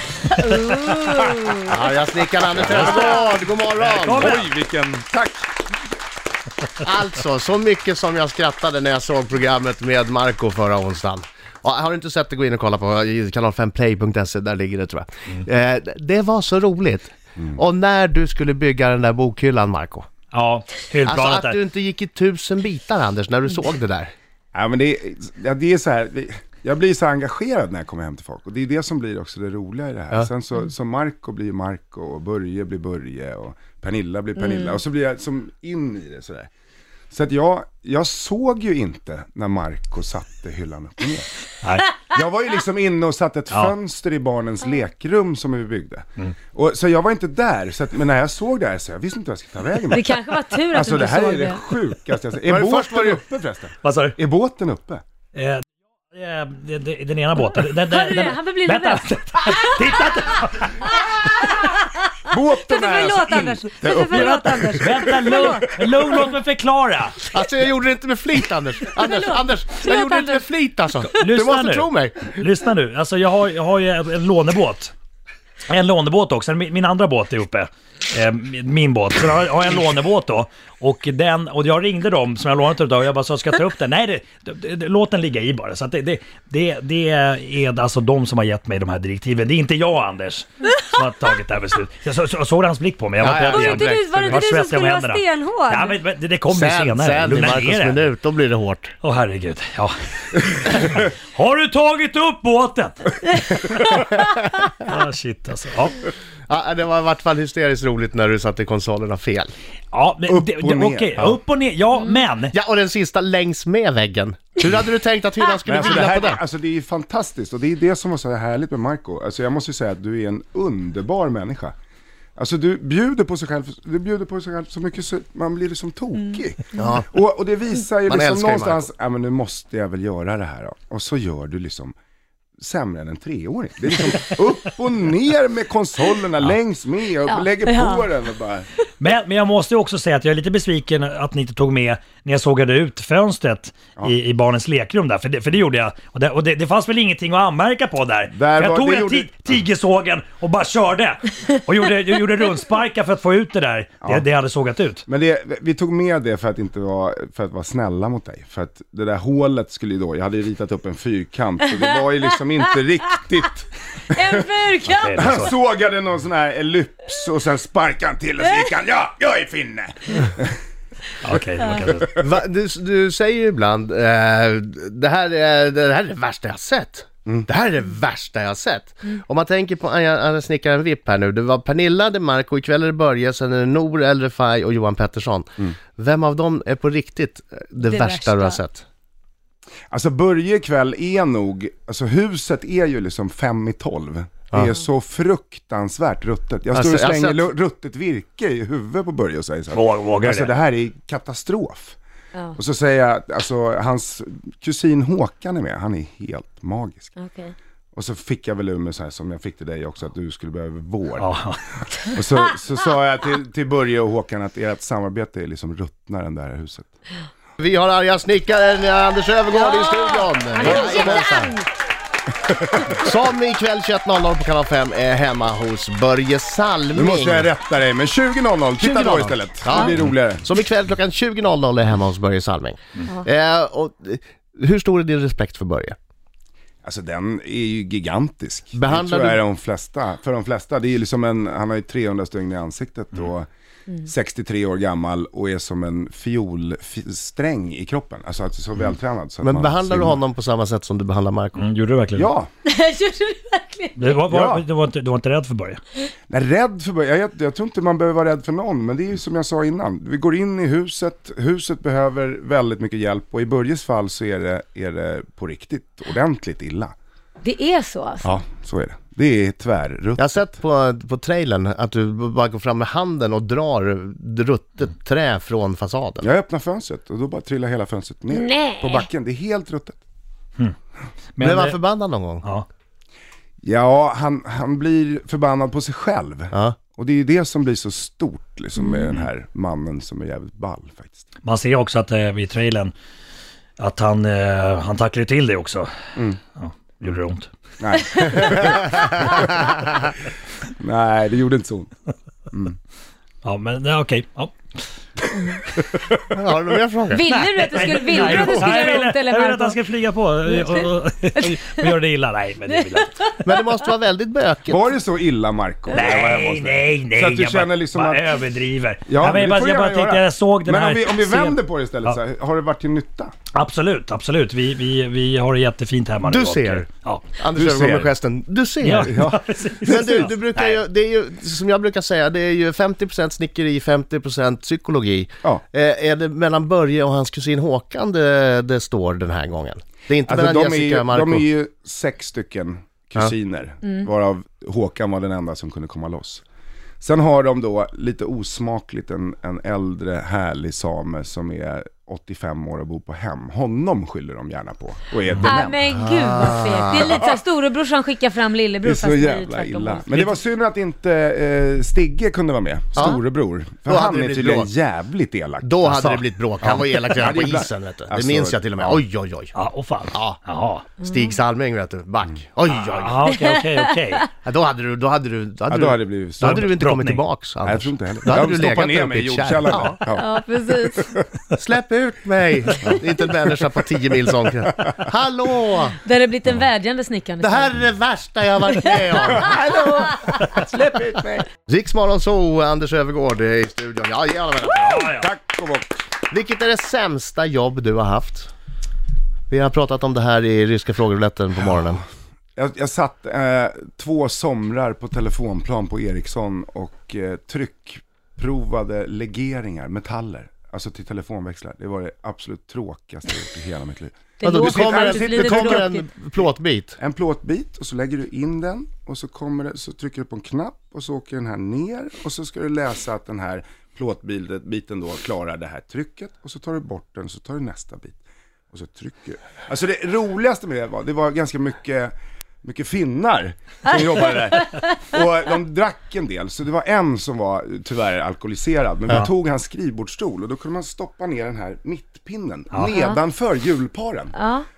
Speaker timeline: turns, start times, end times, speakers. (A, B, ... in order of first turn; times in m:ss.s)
0:00.4-0:01.7 A
0:01.5-0:04.4 B
0:02.6-0:03.3 C
0:02.6-0:04.5 D
0:04.1-0:05.5 C
0:06.8-0:20.1 B
0:20.3-0:21.6 D
0:21.0-0:24.1 B
0:24.5-0:36.5 C
0:34.4-0:34.8 A
0:37.1-0:41.3 C
0:41.6-0:41.9 D
0:42.0-0:55.0 C
0:49.9-0:51.6 A
0:52.4-0:53.3 B
0:53.8-0:54.2 D
0:55.3-1:01.3 D
0:57.8-0:59.9 A
1:00.8-1:05.7 A
1:02.3-1:05.9 C
1:04.1-1:07.2 D
1:07.2-1:12.4 B
1:09.0-1:10.4 A
1:11.2-1:14.9 D
1:15.7-1:38.1 D
1:33.2-1:34.4 B
1:33.4-1:36.0 A
1:36.5-1:38.9 B
1:39.0-1:43.2 D
1:43.4-1:44.3 A
1:44.8-1:46.1 D
1:46.5-1:49.5 B
1:49.9-1:52.5 D
1:50.3-1:51.3 C
1:52.5-1:56.4 B
1:55.6-2:01.7 C
2:02.4-2:11.9 C
2:06.8-2:07.1 B
2:08.1-2:08.9 B
2:12.6-2:18.7 C
2:17.2-2:18.1 A
2:19.0-2:35.0 D
2:28.3-2:29.5 C
2:35.1-2:44.4 C
2:44.1-2:45.3 A
2:44.8-2:45.5 D
2:45.2-2:50.5 C
2:48.4-2:48.7 A
2:51.2-2:52.1 D
2:52.1-3:08.8 B
3:07.8-3:08.6 A
3:09.9-3:22.0 C
3:16.7-3:17.5 B
3:19.7-3:20.5 D
3:22.6-3:27.1 C
3:27.2-3:27.5 A
3:27.9-3:31.3 C
3:31.2-3:32.2 D
3:32.1-3:36.9 C
3:37.6-3:41.5 B
3:39.5-3:41.7 A
3:40.6-3:41.2 C
3:42.9-3:47.5 B
3:46.9-3:50.4 C
3:48.8-3:56.0 B
3:56.8-4:03.5 C
3:58.7-3:59.4 B
4:04.0-4:10.2 C
4:09.4-4:11.6 B
4:11.6-4:12.3 D
4:12.1-4:12.5 C
4:12.6-4:14.1 A
4:14.0-4:15.8 D
4:14.3-4:14.6 C
4:16.3-4:26.9 C
4:27.4-4:28.3 A
4:28.2-4:30.4 C
4:30.2-4:36.3 B
4:36.2-4:40.0 C
4:38.3-4:39.1 A
4:41.4-4:41.8 D
4:41.4-4:42.4 B
4:43.6-4:51.2 C
4:51.4-4:52.9 D
4:53.8-4:55.9 D
4:56.1-4:56.4 C
4:56.6-4:57.5 D
4:57.8-4:59.6 C
4:58.0-4:59.5 A
4:58.5-4:58.8 B
5:00.8-5:01.9 C
5:02.5-5:02.8 C
5:03.4-5:04.8 D
5:06.2-5:07.2 B
5:07.1-5:09.8 A
5:07.2-5:13.4 D
5:08.0-5:08.7 B
5:10.5-5:11.9 A
5:13.4-5:15.0 B
5:14.6-5:18.3 C
5:15.9-5:22.2 D
5:15.9-5:16.3 A
5:19.1-5:23.3 C
5:23.5-5:27.2 D
5:26.2-5:26.8 B
5:27.4-5:41.5 B
5:27.5-5:28.1 C
5:28.8-5:30.8 D
5:29.0-5:30.3 C
5:40.3-5:46.4 C
5:47.0-5:55.8 C
5:55.4-6:00.3 A
5:55.9-5:57.2 B
5:57.0-5:57.4 C
5:58.8-6:09.0 C
6:03.8-6:04.7 B
6:05.6-6:09.5 B
6:09.5-6:10.8 D
6:10.1-6:10.4 B
6:11.0-6:11.3 A
6:11.0-6:13.3 B
6:12.6-6:14.3 D
6:14.4-6:20.0 B
6:15.7-6:16.7 C
6:16.4-6:17.2 D
6:17.6-6:20.3 C
6:20.1-6:21.1 A
6:20.8-6:21.2 C
6:21.5-6:26.0 B
6:26.0-6:27.7 A
6:27.4-6:29.6 B
6:29.2-6:31.5 C
6:29.4-6:29.8 A
6:31.7-6:35.1 B
6:34.8-6:35.3 D
6:35.0-6:35.9 C
6:36.3-6:38.5 B
6:39.5-6:42.0 B
6:42.6-6:55.9 C
6:54.4-6:56.1 A
6:54.4-6:57.0 B
6:57.0-7:08.2 C
7:08.7-7:12.1 C
7:12.6-7:24.4 C
7:22.9-7:23.2 A
7:24.3-7:24.6 A